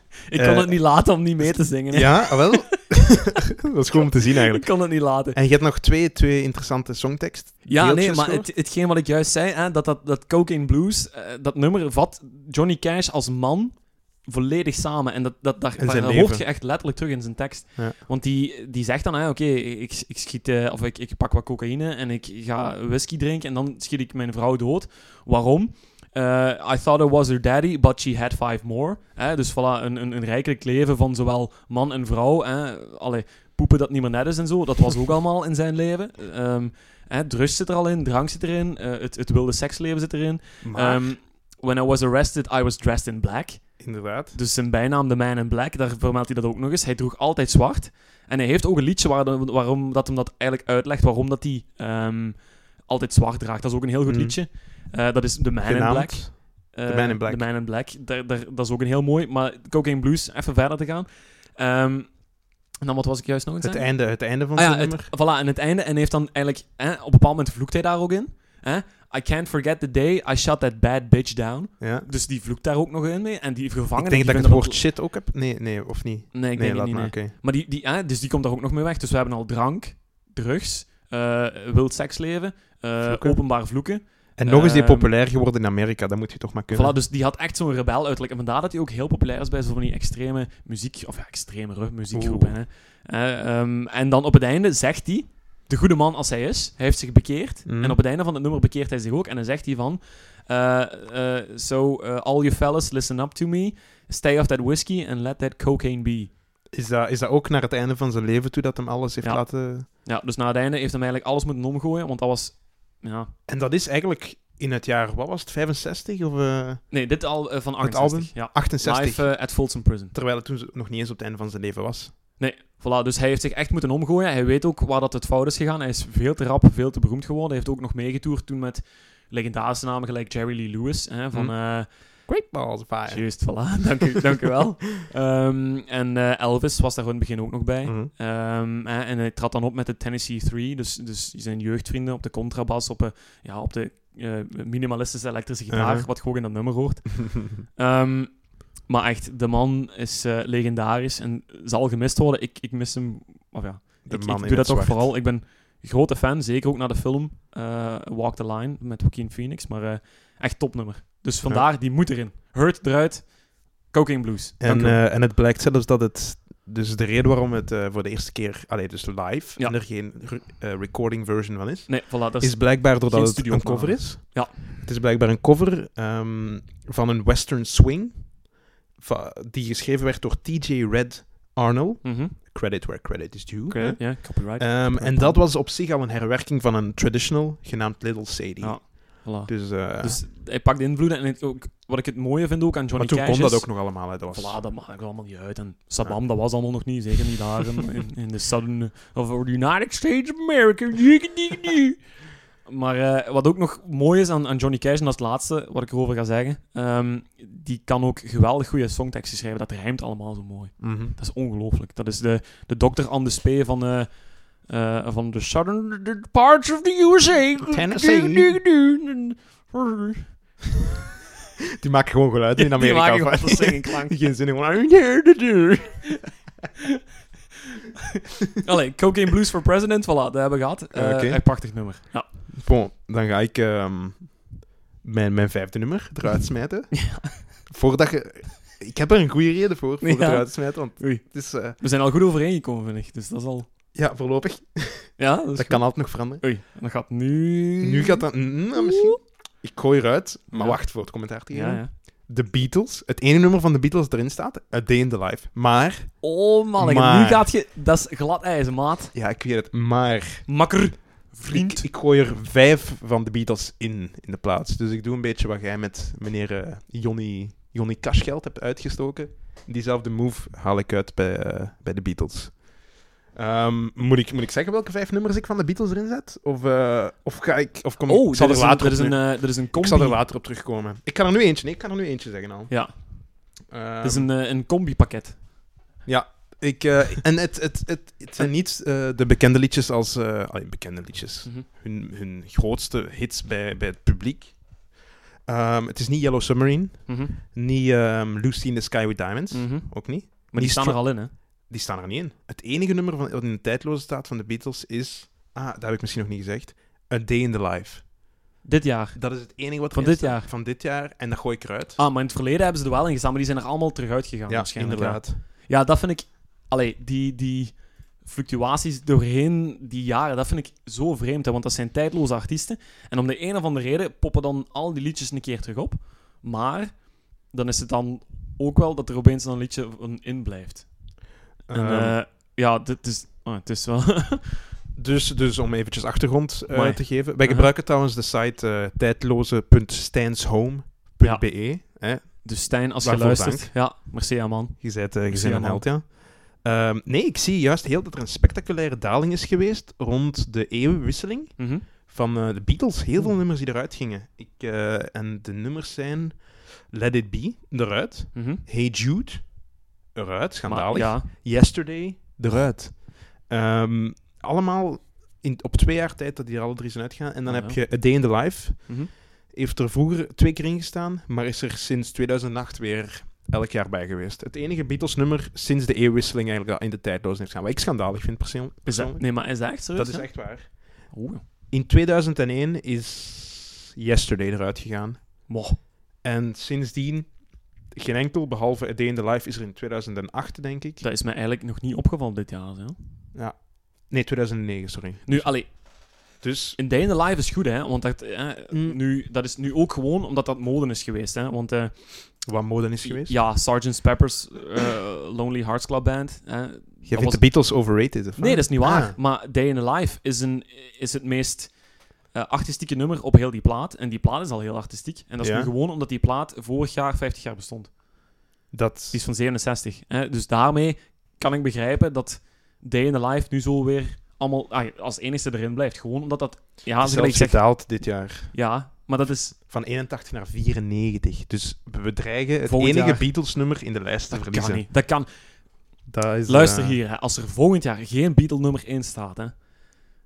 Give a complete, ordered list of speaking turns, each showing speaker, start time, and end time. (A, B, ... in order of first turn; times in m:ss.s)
0:00.3-0:02.9 A
0:00.3-0:08.5 B
0:04.5-0:05.4 A
0:07.6-0:43.8 A
0:15.8-0:16.5 B
0:40.6-0:41.1 B
0:43.8-0:44.4 B
0:44.3-1:14.9 A
0:54.0-0:54.4 B
0:55.6-0:57.5 B
1:03.6-1:05.1 B
1:11.8-1:12.1 B
1:14.0-1:17.3 B
1:16.3-1:25.1 A
1:23.0-1:23.4 B
1:24.4-1:27.0 B
1:26.7-1:46.4 A
1:32.1-1:32.6 B
1:37.7-1:38.0 B
1:46.7-1:49.9 B
1:49.2-1:53.3 A
1:53.5-1:57.0 B
1:56.9-2:00.1 A
1:57.8-2:02.1 B
2:02.4-2:12.1 A
2:12.3-2:14.2 B
2:13.1-2:45.0 A
2:17.8-2:18.1 B
2:25.7-2:26.1 B
2:34.1-2:35.2 B
2:41.4-2:41.7 B
2:44.6-3:10.2 B
2:51.9-2:54.8 A
3:02.0-3:02.4 A
3:03.7-3:05.5 A
3:08.6-3:22.1 A
3:12.9-3:14.6 B
3:22.6-3:40.6 A
3:30.8-3:31.2 B
3:37.7-3:38.6 B
3:41.8-3:46.2 B
3:42.6-3:44.4 A
3:48.6-3:52.4 A
3:50.9-4:01.8 B
3:56.9-3:57.5 A
4:00.0-4:03.7 A
4:03.9-4:06.5 B
4:05.2-4:08.2 A
4:07.8-4:17.5 B
4:08.8-4:09.2 A
4:10.5-4:10.8 A
4:11.5-4:11.9 A
4:16.2-4:19.1 A
4:19.1-4:20.6 B
4:20.5-4:21.9 A
4:21.4-4:32.8 B
4:33.3-4:42.8 B
4:38.1-4:40.2 A
4:42.7-4:45.4 A
4:43.6-4:44.3 B
4:46.0-4:54.9 B
4:55.4-5:08.1 B
4:57.1-4:57.4 A
4:59.5-5:01.5 A
5:08.6-5:10.5 A
5:09.1-5:12.0 B
5:12.0-5:34.8 A
5:14.5-5:15.4 B
5:31.7-5:32.2 B
5:35.0-5:43.9 B
5:36.7-5:37.7 A
5:41.2-5:41.7 A
5:42.4-5:45.9 A
5:44.8-6:21.1 B
5:51.6-5:52.0 A
5:58.3-5:58.6 A
6:00.6-6:01.3 A
6:07.4-6:08.0 A
6:08.9-6:09.2 A
6:18.8-6:21.4 A
6:21.7-6:25.6 B
6:25.5-6:25.8 A
6:26.2-6:31.0 B
6:31.0-6:33.0 A
6:33.3-6:35.8 B
6:35.2-6:42.5 A
6:36.3-6:36.8 B
6:38.7-6:39.0 B
6:42.4-6:43.4 B
6:43.0-6:58.0 A
6:47.1-6:49.2 B
6:55.4-6:55.7 B
6:58.7-6:59.2 B
6:59.1-7:09.6 A
7:06.9-7:08.5 B
7:09.6-7:14.9 B
7:12.6-7:13.3 A
7:14.3-7:15.8 A
7:16.1-7:17.0 B
7:16.5-7:19.6 A